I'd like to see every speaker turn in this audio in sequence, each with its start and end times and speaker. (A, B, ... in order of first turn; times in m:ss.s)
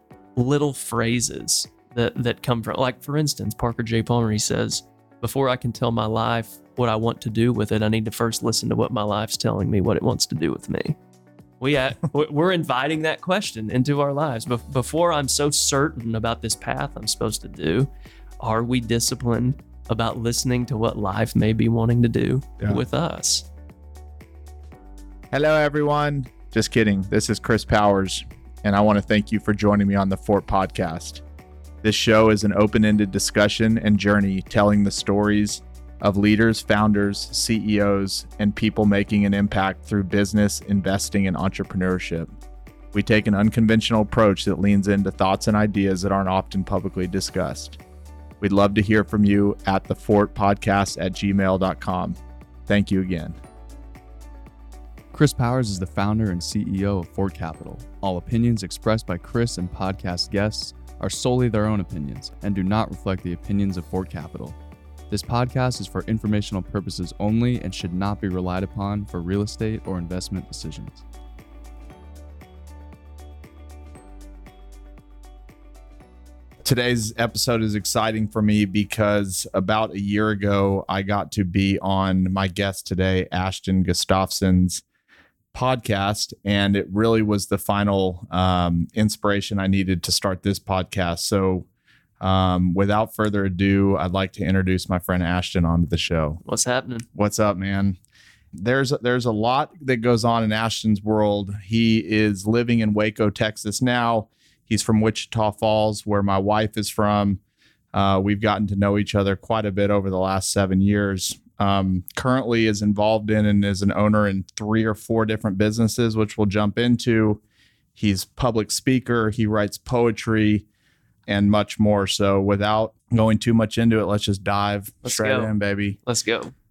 0:00.4-0:11.0 A
0:11.6-0:17.9 A
0:18.4-0:23.5 A
0:25.3-0:31.2 B
0:31.8-0:42.3 B
0:42.9-0:47.8 B
0:48.4-0:53.4 B
0:55.1-1:04.6 C
1:05.1-1:11.0 C
1:16.6-1:24.8 B
1:25.5-1:31.7 B
1:32.2-1:36.4 B
1:36.4-1:37.1 A
1:37.2-1:38.0 B
1:38.6-1:47.4 B
1:47.9-1:57.4 B
1:58.0-2:00.6 B
2:01.3-2:06.0 B
2:05.0-2:06.5 A